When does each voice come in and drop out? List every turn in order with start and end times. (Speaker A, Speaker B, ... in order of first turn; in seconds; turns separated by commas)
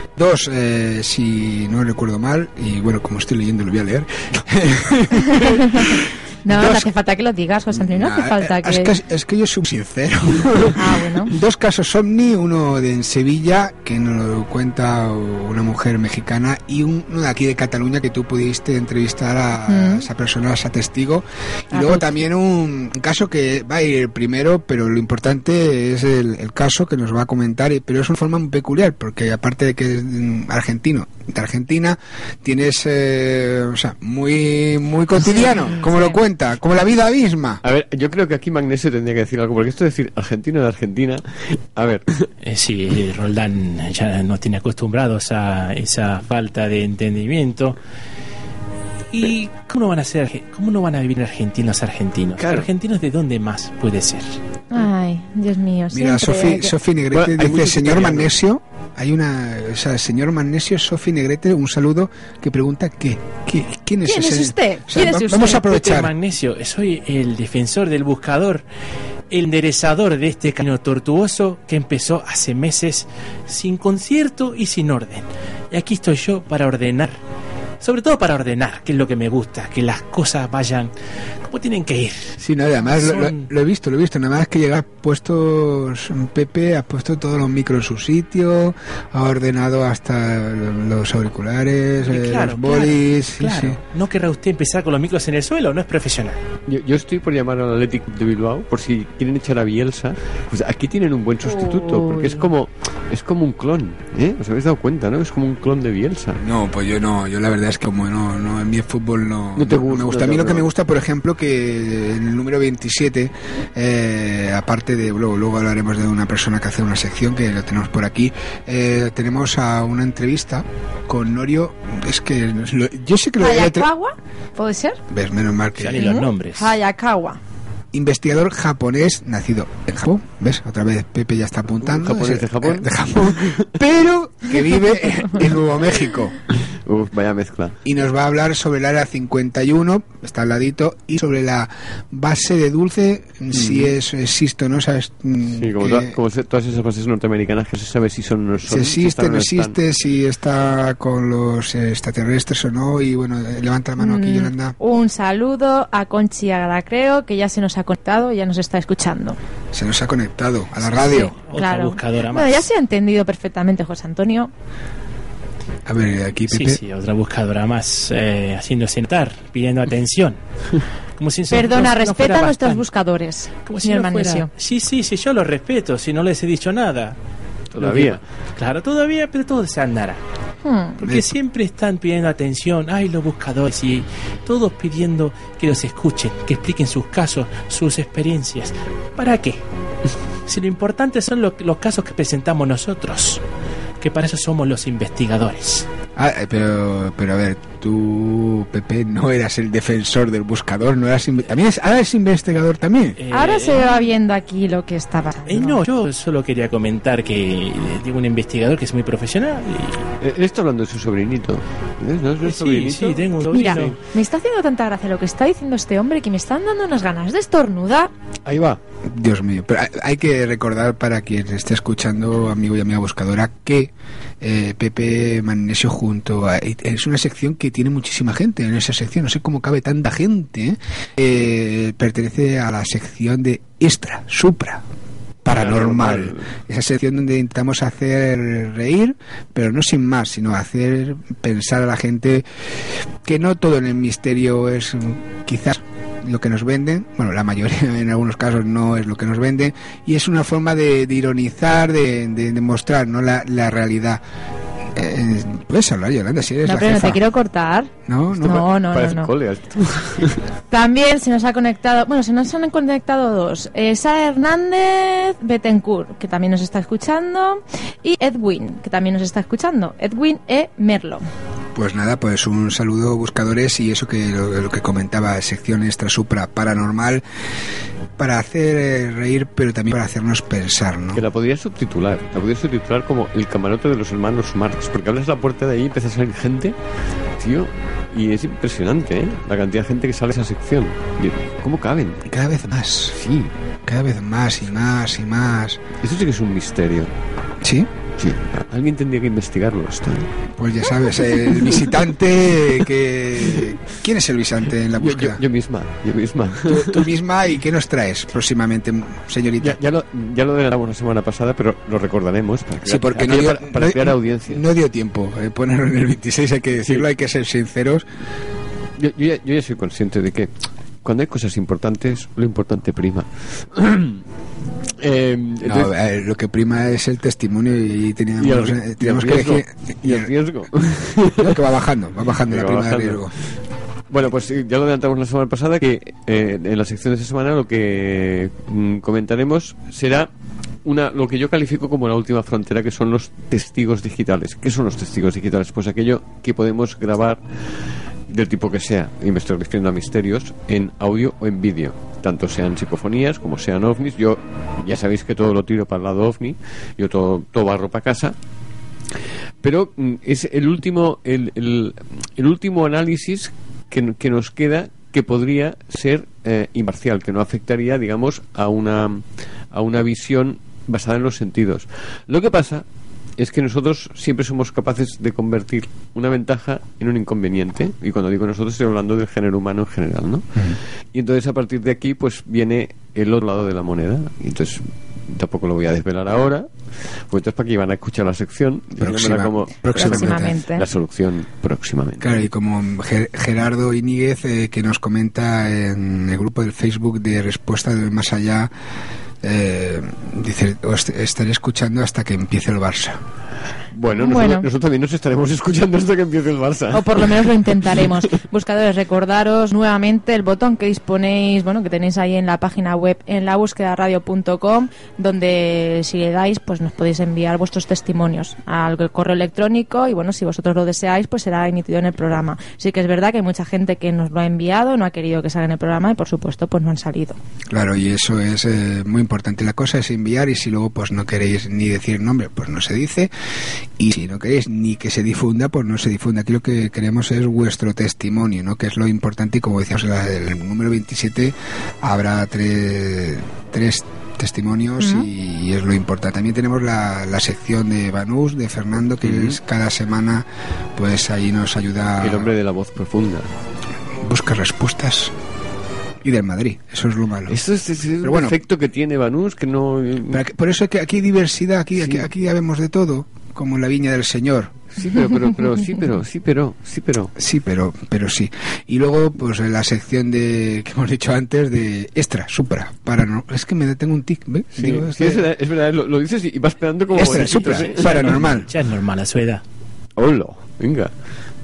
Speaker A: 0.1-6.9, Speaker B: 5.2-8.9, Speaker A: 7.7-37.6, Speaker B: 10.8-11.3, Speaker B: 19.7-20.1, Speaker B: 21.7-22.2, Speaker B: 35.1-36.2, Speaker C: 37.6-42.3, Speaker D: 42.4-47.8, Speaker D: 49.1-54.3, Speaker C: 52.4-52.7, Speaker B: 54.7-56.7, Speaker A: 55.9-66.1, Speaker C: 57.1-58.3, Speaker B: 64.0-65.6, Speaker D: 65.2-68.6, Speaker D: 69.3-77.2, Speaker D: 77.8-80.9, Speaker D: 81.5-83.5, Speaker A: 82.4-93.8, Speaker D: 92.0-96.4, Speaker C: 96.7-106.4, Speaker B: 101.7-102.4, Speaker A: 106.4-123.9, Speaker C: 109.5-110.7, Speaker B: 123.4-125.0, Speaker A: 125.1-126.2, Speaker D: 125.8-126.7, Speaker B: 126.0-127.4, Speaker A: 127.9-136.4, Speaker C: 131.8-133.7, Speaker C: 136.7-137.8, Speaker A: 137.8-146.2, Speaker C: 143.5-143.9, Speaker C: 145.5-149.8, Speaker A: 148.7-154.8, Speaker B: 154.0-159.4, Speaker A: 159.7-161.3, Speaker D: 160.9-162.6, Speaker B: 161.0-164.5, Speaker A: 165.8-166.8, Speaker D: 166.5-170.4, Speaker D: 171.2-172.8, Speaker B: 171.5-174.5, Speaker D: 173.7-177.2, Speaker D: 177.7-180.2, Speaker C: 177.7-178.2, Speaker B: 180.6-181.0, Speaker D: 181.0-189.6, Speaker A: 181.0-181.3, Speaker D: 190.5-193.4, Speaker D: 194.0-195.9, Speaker A: 196.2-203.2, Speaker D: 203.2-203.8, Speaker B: 203.3-205.8, Speaker D: 205.5-210.0, Speaker C: 210.2-213.8, Speaker D: 212.4-213.9, Speaker B: 213.5-218.1, Speaker C: 218.4-218.8, Speaker A: 219.1-234.8, Speaker A: 235.4-242.4, Speaker C: 235.5-236.4, Speaker A: 243.2-254.2, Speaker A: 254.9-257.2, Speaker B: 256.6-257.9, Speaker A: 258.1-258.6, Speaker C: 258.4-260.4, Speaker B: 258.4-259.3, Speaker B: 260.7-271.2, Speaker A: 271.7-277.2, Speaker A: 278.2-281.2, Speaker C: 281.1-286.7, Speaker C: 287.4-292.2, Speaker A: 292.3-293.2, Speaker C: 293.2-293.5, Speaker A: 293.9-295.8, Speaker C: 296.0-297.1, Speaker A: 297.6-297.9, Speaker C: 298.2-300.3, Speaker A: 300.6-305.4, Speaker C: 305.0-307.1, Speaker A: 306.6-309.8, Speaker C: 309.6-314.6, Speaker A: 312.8-318.1, Speaker C: 316.8-317.1, Speaker C: 319.0-320.5, Speaker C: 321.0-324.2, Speaker C: 325.0-325.9, Speaker A: 325.6-330.3, Speaker C: 328.4-331.6, Speaker A: 331.4-333.3, Speaker C: 332.5-333.5, Speaker C: 334.1-340.3, Speaker C: 340.8-347.4, Speaker C: 348.3-358.4, Speaker C: 359.6-372.8, Speaker C: 373.4-386.7, Speaker C: 387.3-392.4, Speaker A: 389.0-390.6, Speaker B: 389.9-390.8, Speaker A: 392.2-398.7, Speaker A: 399.4-403.2, Speaker C: 403.9-408.1, Speaker B: 404.1-404.7, Speaker B: 406.9-427.4, Speaker A: 427.7-433.3, Speaker A: 434.0-452.5, Speaker B: 445.0-445.3, Speaker C: 449.2-449.6, Speaker C: 452.2-453.5, Speaker A: 454.1-455.3, Speaker A: 456.2-457.6, Speaker C: 457.5-460.4, Speaker A: 458.2-458.5, Speaker A: 460.3-464.8, Speaker C: 462.0-462.2, Speaker C: 464.9-467.3, Speaker A: 467.4-475.5, Speaker C: 474.8-478.6, Speaker A: 477.1-478.7, Speaker D: 477.3-479.6, Speaker C: 480.2-481.1